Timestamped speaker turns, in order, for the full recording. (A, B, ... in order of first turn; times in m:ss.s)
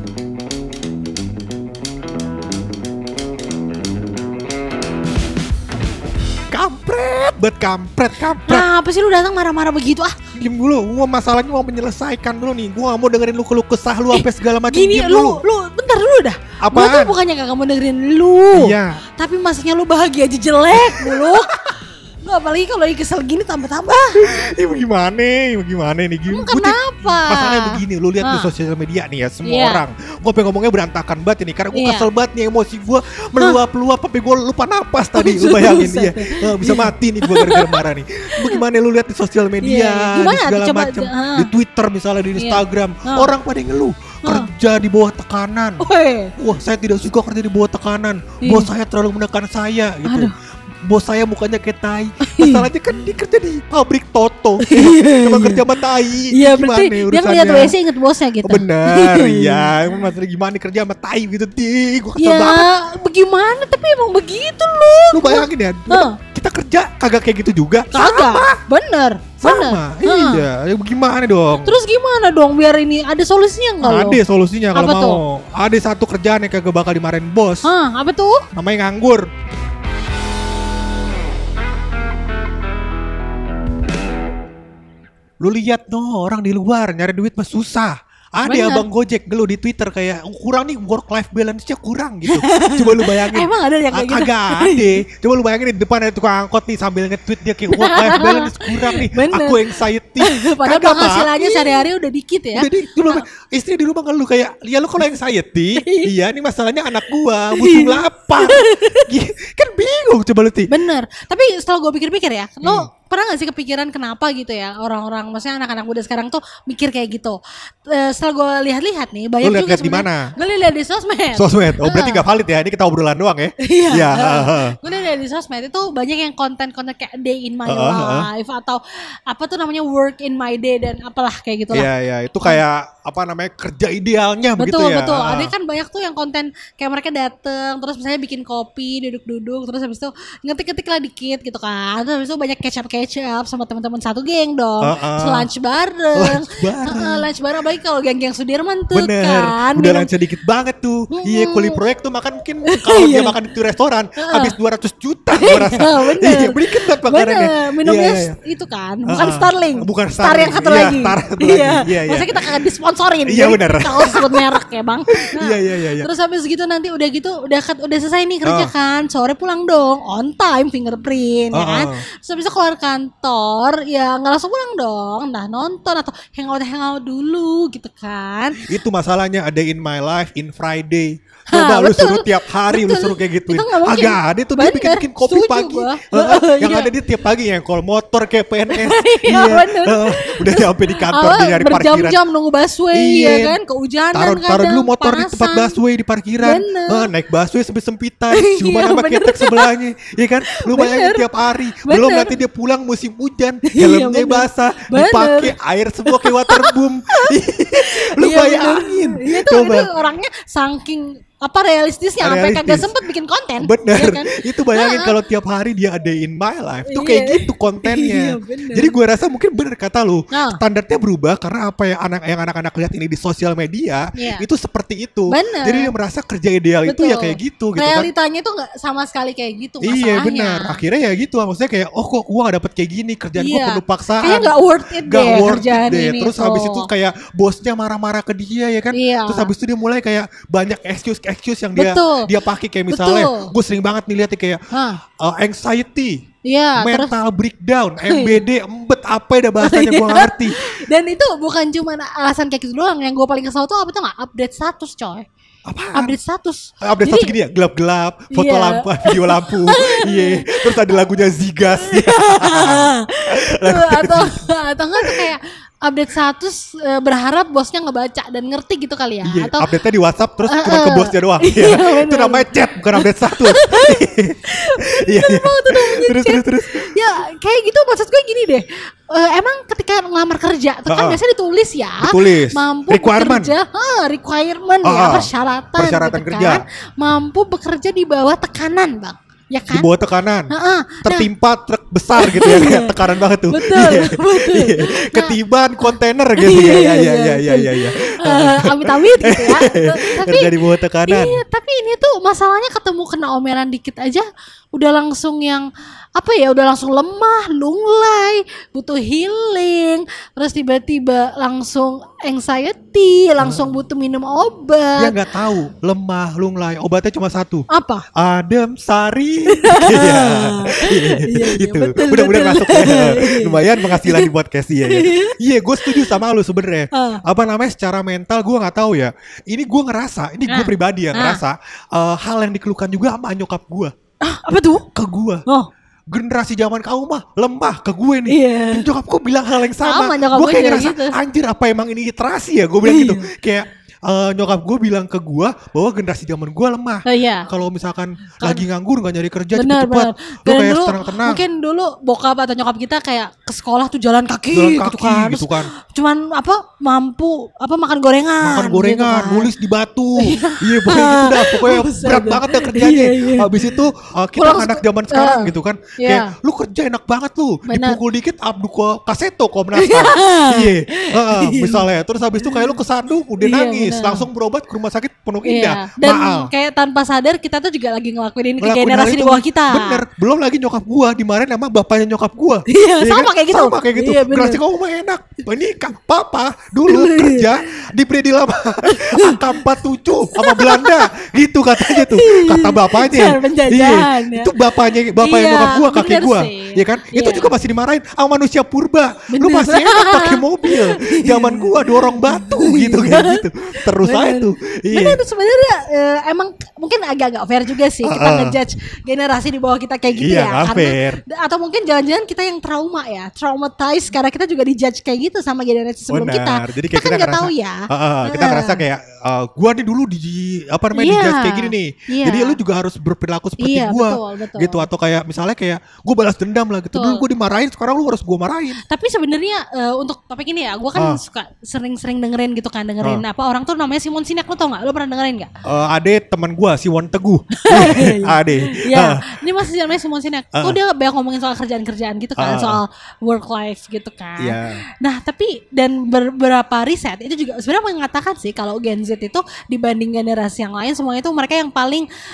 0:06.5-0:08.7 A
0:08.4-0:10.1 B
0:10.4-0:15.4 A
0:14.1-0:24.2 B
0:16.6-0:17.2 A
0:18.5-0:19.0 A
0:20.7-0:21.8 A
0:24.2-0:45.8 A
0:26.3-0:28.5 B
0:29.4-0:29.8 B
0:31.7-0:32.1 B
0:35.2-0:37.8 B
0:38.4-0:38.6 B
0:39.6-0:41.5 B
0:42.4-0:43.3 B
0:44.2-0:44.5 B
0:45.8-0:46.3 B
0:46.4-0:50.3 A
0:48.4-0:48.7 B
0:50.0-0:50.3 B
0:50.8-0:57.8 A
0:52.2-0:52.7 B
0:54.6-0:55.6 B
0:56.3-0:59.9 B
0:58.4-1:02.7 A
1:02.2-1:06.2 B
1:05.1-1:08.6 A
1:07.9-1:10.5 B
1:09.4-1:11.8 A
1:11.6-1:14.2 B
1:13.8-1:17.7 A
1:14.7-1:15.2 B
1:17.6-1:18.5 B
1:18.5-1:19.3 A
1:25.4-1:41.9 A
1:28.4-1:28.9 B
1:32.2-1:34.9 B
1:37.7-1:43.2 B
1:42.6-1:50.7 A
1:45.8-1:46.1 B
1:47.5-1:49.1 B
1:50.7-2:02.3 B
1:52.6-1:52.9 A
1:59.4-2:00.3 A
2:01.4-2:04.8 A
2:03.6-2:11.9 B
2:07.7-2:08.3 A
2:11.7-2:15.5 A
2:14.6-2:30.1 B
2:24.8-2:25.5 A
2:26.2-2:27.3 A
2:28.9-2:38.4 A
2:31.1-2:31.8 B
2:32.6-2:33.4 B
2:34.2-2:34.6 B
2:35.3-2:58.6 B
2:39.1-2:42.3 A
2:43.3-2:44.6 A
2:45.2-2:46.1 A
2:48.4-2:48.7 A
2:51.5-2:52.0 A
2:58.6-3:12.2 A
3:01.5-3:07.0 B
3:08.7-3:15.8 B
3:12.9-3:13.6 A
3:14.1-3:29.9 A
3:16.4-3:17.1 B
3:18.3-3:19.7 B
3:20.5-3:21.3 B
3:21.8-3:22.3 B
3:23.6-3:25.5 B
3:26.1-3:35.2 B
3:32.2-3:32.9 A
3:33.6-3:48.1 A
3:36.9-3:38.9 B
3:40.3-3:40.6 B
3:44.2-3:44.4 B
3:45.3-3:45.9 B
3:46.9-3:50.8 B
3:49.8-4:04.6 A
3:53.4-3:56.9 B
3:58.9-3:59.5 B
4:01.7-4:02.3 B
4:02.9-4:03.5 B
4:04.7-4:05.0 B
4:05.2-4:06.2 A
4:06.4-4:07.2 B
4:06.8-4:10.6 A
4:08.0-4:08.4 B
4:09.6-4:15.3 B
4:15.7-4:16.2 A
4:15.9-4:17.3 B
4:16.8-4:24.4 A
4:18.3-4:21.1 B
4:21.8-4:29.7 B
4:25.0-4:25.3 A
4:29.2-4:36.9 A
4:30.5-4:49.9 B
4:40.9-4:41.2 A
4:42.0-4:43.5 A
4:44.8-4:46.6 A
4:49.7-4:50.5 A
4:50.5-4:51.3 B
4:51.0-5:01.4 A
4:52.2-4:55.4 B
4:56.4-5:15.2 B
5:13.4-5:13.7 A
5:15.0-5:33.9 A
5:17.7-5:18.0 B
5:19.5-5:24.3 B
5:24.8-5:26.2 B
5:26.9-5:27.2 B
5:30.5-5:31.4 B
5:34.2-5:34.9 B
5:34.9-5:35.4 A
5:36.1-5:51.4 A
5:38.3-5:38.9 B
5:39.8-5:41.2 B
5:42.8-5:43.3 B
5:47.1-5:47.5 B
5:49.5-5:59.5 B
5:54.5-5:55.7 A
5:58.4-6:16.5 A
6:00.2-6:03.8 B
6:04.4-6:06.3 B
6:07.7-6:08.0 B
6:09.7-6:11.8 B
6:12.4-6:12.8 B
6:13.4-6:14.3 B
6:15.4-6:20.0 B
6:18.6-6:45.2 A
6:22.7-6:24.6 B
6:26.9-6:27.6 B
6:28.9-6:29.7 B
6:30.3-6:31.1 B
6:31.8-6:37.5 B
6:39.3-6:58.8 B
6:48.0-6:48.6 A
6:50.2-6:51.2 A
6:56.1-7:08.8 A
7:00.9-7:02.6 B
7:03.6-7:04.9 B
7:06.9-7:07.2 B
7:08.9-7:15.5 B
7:11.0-7:11.2 A
7:15.7-7:19.2 A
7:17.6-7:32.1 B
7:22.4-7:22.8 A
7:24.4-7:24.8 A